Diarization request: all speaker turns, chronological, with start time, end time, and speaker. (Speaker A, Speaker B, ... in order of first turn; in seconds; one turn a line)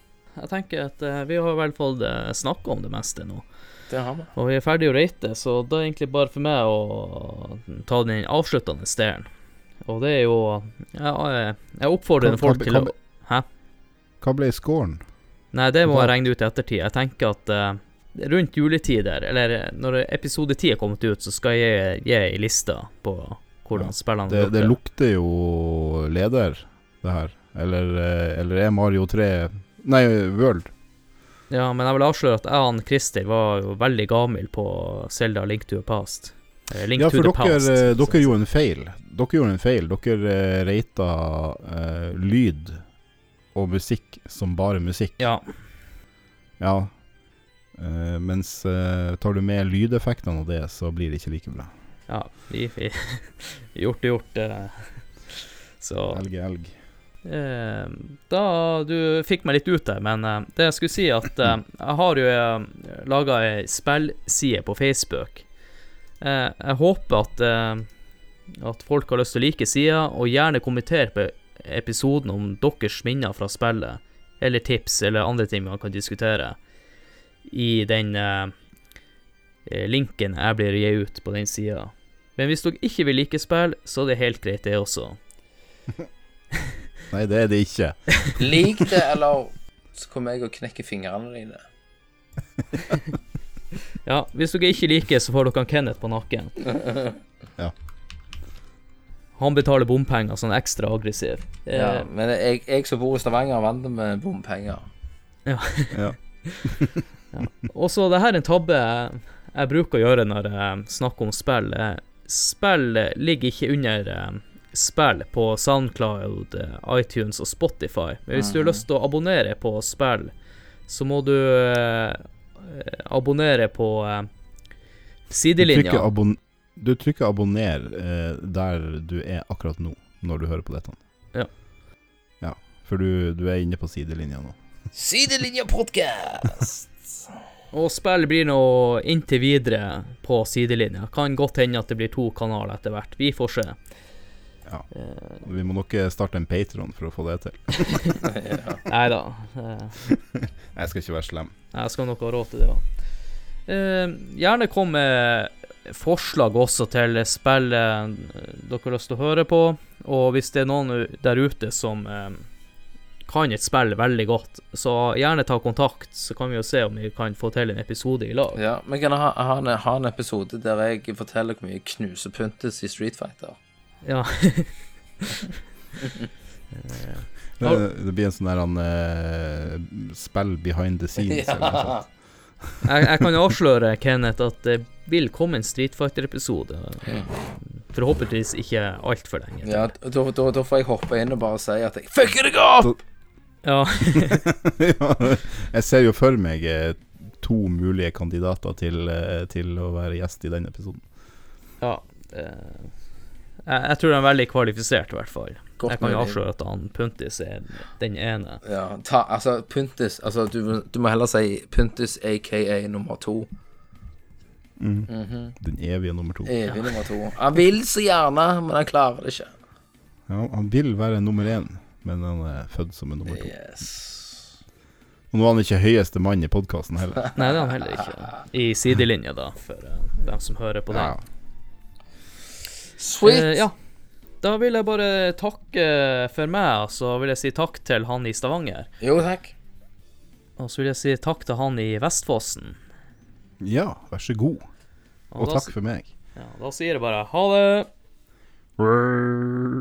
Speaker A: 0.4-3.5
Speaker B: 3.9-4.3
Speaker A: 4.4-9.3
Speaker A: 9.8-13.4
Speaker C: 12.2-12.9
Speaker C: 14.2-15.1
Speaker A: 15.5-24.8
Speaker C: 15.9-16.2
Speaker C: 23.8-30.7
Speaker A: 31.5-38.3
Speaker C: 37.0-42.8
Speaker C: 43.5-45.2
Speaker A: 45.2-45.5
Speaker C: 46.6-47.0
Speaker C: 47.7-51.7
Speaker A: 52.1-56.2
Speaker C: 56.1-56.8
Speaker A: 57.2-65.5
Speaker A: 66.2-67.9
Speaker A: 68.5-76.6
Speaker A: 77.5-78.5
Speaker A: 79.7-85.2
Speaker C: 87.1-88.3
Speaker B: 88.4-91.6
Speaker A: 94.0-96.6
Speaker B: 96.7-97.2
Speaker A: 99.4-102.1
Speaker B: 101.7-104.8
Speaker A: 105.5-120.3
Speaker C: 105.9-107.0
Speaker B: 118.4-118.8
Speaker A: 120.9-124.3
Speaker A: 125.3-126.1
Speaker C: 125.6-131.0
Speaker C: 132.4-134.6
Speaker B: 134.9-137.1
Speaker A: 137.7-143.8
Speaker A: 144.9-145.4
Speaker C: 145.4-148.2
Speaker A: 147.9-148.2
Speaker B: 148.2-148.8
Speaker A: 148.9-150.0
Speaker C: 150.0-151.5
Speaker A: 151.7-152.8
Speaker A: 153.7-162.5
Speaker A: 163.3-168.6
Speaker B: 168.6-173.6
Speaker A: 174.0-175.6
Speaker A: 176.7-177.8
Speaker C: 177.6-182.1
Speaker B: 181.2-182.1
Speaker A: 182.8-189.9
Speaker B: 189.7-193.0
Speaker A: 193.6-194.5
Speaker C: 194.3-201.0
Speaker A: 201.8-202.9
Speaker A: 203.7-208.6
Speaker B: 205.8-206.4
Speaker B: 208.7-213.5
Speaker C: 214.8-216.7
Speaker B: 215.1-215.6
Speaker B: 216.4-219.5
Speaker C: 220.3-223.5
Speaker B: 223.3-224.4
Speaker C: 225.3-227.3
Speaker A: 227.4-231.2
Speaker C: 230.9-231.2
Speaker B: 233.0-233.6
Speaker A: 233.2-233.8
Speaker A: 234.4-238.9
Speaker B: 239.0-239.5
Speaker A: 240.6-242.8
Speaker C: 243.6-244.7
Speaker A: 245.3-245.8
Speaker C: 245.4-246.1
Speaker A: 246.3-247.9
Speaker C: 248.8-249.6